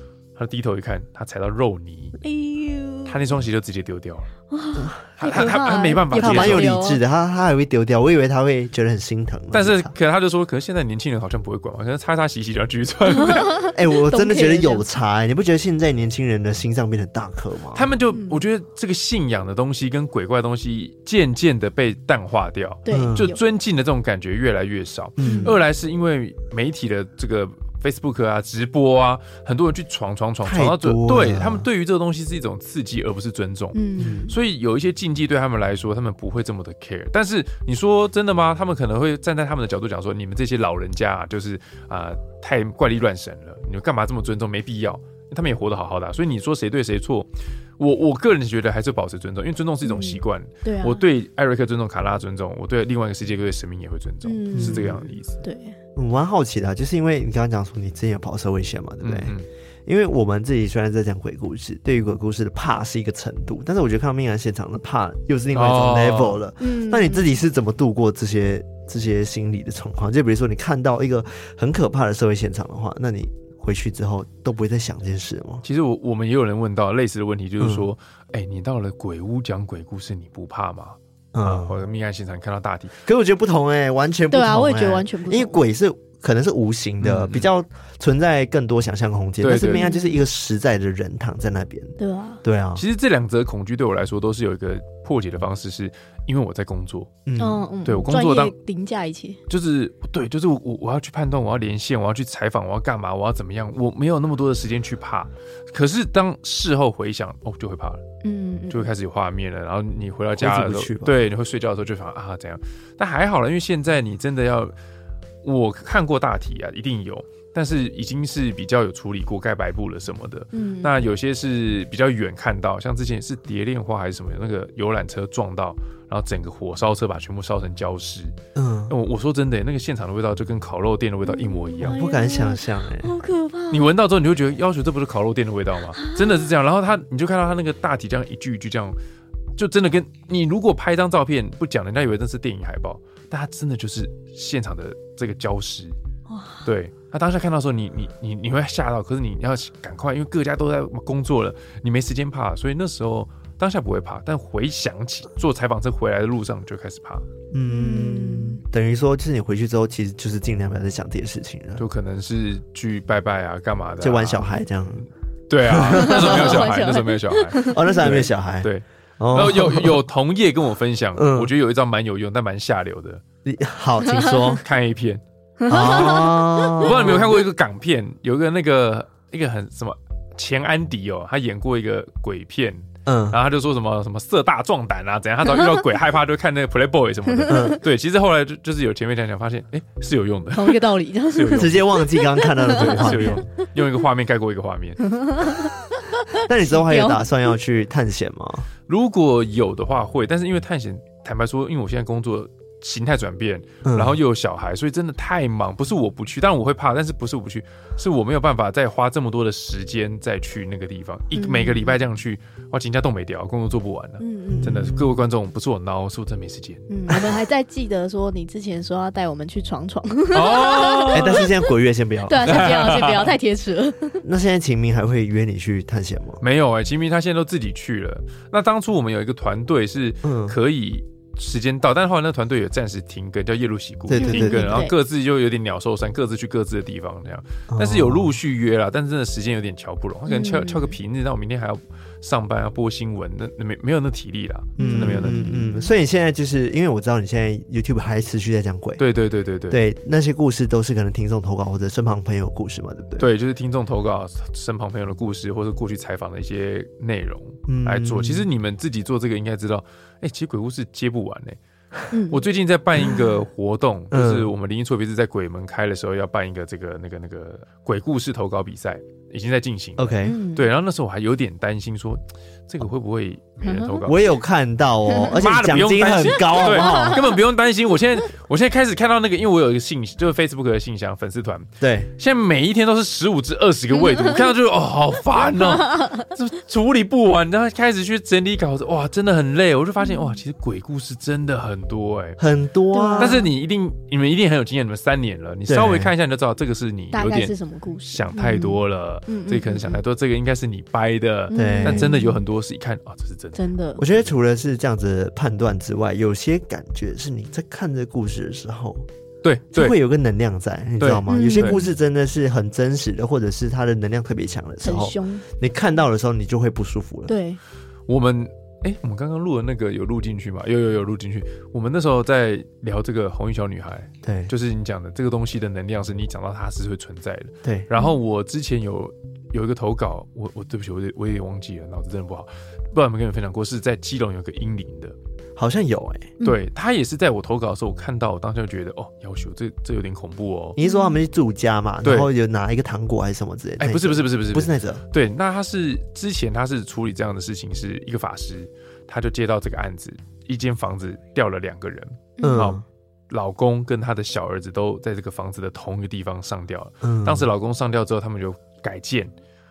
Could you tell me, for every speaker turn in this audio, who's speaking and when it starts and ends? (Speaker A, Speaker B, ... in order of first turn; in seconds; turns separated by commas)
Speaker A: 0.4-2.2, Speaker B: 2.2-3.2, Speaker A: 3.1-4.3, Speaker B: 4.5-7.0, Speaker C: 4.8-5.5, Speaker A: 5.2-6.8, Speaker C: 6.1-9.9, Speaker A: 9.5-13.7, Speaker B: 13.2-14.8, Speaker C: 13.8-17.9, Speaker A: 17.8-55.4, Speaker B: 18.1-18.4, Speaker B: 22.9-23.4, Speaker C: 22.9-23.3, Speaker C: 25.2-25.6, Speaker B: 25.2-25.6, Speaker C: 30.4-31.7, Speaker B: 33.7-34.3, Speaker C: 34.0-34.3, Speaker B: 49.8-51.0, Speaker B: 54.2-55.8, Speaker C: 54.5-55.0, Speaker C: 56.0-59.3, Speaker A: 59.0-59.5, Speaker C: 59.9-75.6, Speaker A: 65.5-66.4, Speaker B: 66.6-67.3, Speaker A: 75.6-83.0, Speaker C: 77.6-77.9, Speaker C: 81.3-81.8, Speaker C: 83.1-92.8, Speaker B: 84.3-85.6, Speaker A: 87.0-87.5, Speaker A: 89.4-89.9, Speaker B: 89.6-90.2, Speaker B: 92.0-92.4, Speaker A: 92.8-97.2, Speaker C: 97.3-97.6, Speaker B: 97.4-99.4, Speaker A: 97.8-98.5, Speaker A: 99.5-108.0, Speaker B: 108.2-108.9, Speaker A: 108.7-114.7, Speaker C: 110.4-111.2, Speaker A: 115.4-128.3, Speaker B: 120.5-121.0, Speaker C: 128.6-128.9, Speaker A: 128.9-132.0, Speaker B: 131.3-133.9, Speaker C: 131.8-133.1, Speaker A: 133.7-139.0, Speaker B: 136.0-136.3, Speaker A: 139.6-145.9, Speaker B: 146.3-146.7, Speaker A: 146.6-157.3, Speaker C: 157.5-161.8, Speaker B: 157.7-158.6, Speaker A: 161.8-164.5, Speaker C: 164.0-165.1, Speaker A: 165.5-173.2, Speaker C: 165.7-166.7, Speaker B: 165.8-168.0, Speaker C: 167.7-170.0, Speaker C: 171.2-171.5, Speaker C: 173.4-174.6, Speaker A: 174.6-191.9, Speaker B: 175.6-176.9, Speaker C: 175.7-177.4, Speaker C: 183.1-183.4, Speaker B: 187.3-187.8, Speaker C: 187.5-187.8, Speaker B: 190.5-193.6, Speaker C: 191.5-193.4, Speaker A: 192.7-195.1, Speaker B: 195.0-197.3, Speaker C: 196.4-198.7, Speaker A: 198.9-216.9, Speaker C: 203.8-204.2, Speaker B: 211.3-212.0, Speaker B: 214.2-214.7, Speaker C: 214.5-215.2, Speaker B: 216.9-221.5, Speaker A: 220.3-221.5, Speaker C: 221.1-222.9, Speaker B: 222.3-224.2, Speaker A: 222.4-223.3, Speaker C: 224.2-226.4, Speaker A: 226.4-245.7, Speaker C: 230.2-230.6, Speaker C: 234.1-234.9, Speaker B: 234.2-234.9, Speaker C: 237.7-238.4, Speaker B: 240.3-240.9, Speaker B: 244.8-245.9, Speaker C: 244.8-249.0, Speaker A: 249.0-249.8, Speaker C: 249.7-253.3, Speaker A: 253.2-261.6, Speaker C: 257.7-258.5, Speaker B: 262.1-262.4, Speaker A: 262.3-274.3, Speaker C: 264.1-264.5, Speaker C: 270.0-270.4, Speaker B: 270.2-270.7, Speaker B: 273.6-274.0, Speaker C: 274.0-277.3, Speaker A: 275.3-292.4, Speaker B: 276.5-277.2, Speaker C: 281.8-282.1, Speaker B: 290.1-290.4, Speaker C: 292.4-293.4, Speaker B: 292.9-293.5, Speaker A: 293.2-297.5, Speaker C: 295.7-296.1, Speaker B: 297.1-300.0, Speaker A: 298.1-304.3, Speaker B: 301.5-302.4, Speaker C: 301.5-302.1, Speaker B: 303.6-304.0, Speaker C: 304.0-309.1, Speaker A: 309.4-310.0, Speaker C: 309.7-317.3, Speaker A: 311.0-311.8, Speaker B: 311.3-311.9, Speaker B: 314.8-315.4, Speaker B: 317.3-317.6, Speaker A: 318.1-335.1, Speaker C: 324.2-324.5, Speaker C: 335.6-336.4, Speaker A: 336.4-340.8, Speaker C: 340.8-345.0, Speaker B: 340.8-341.2, Speaker A: 342.0-342.3, Speaker A: 343.8-359.3, Speaker B: 352.4-352.7, Speaker C: 352.4-352.8, Speaker C: 357.0-357.5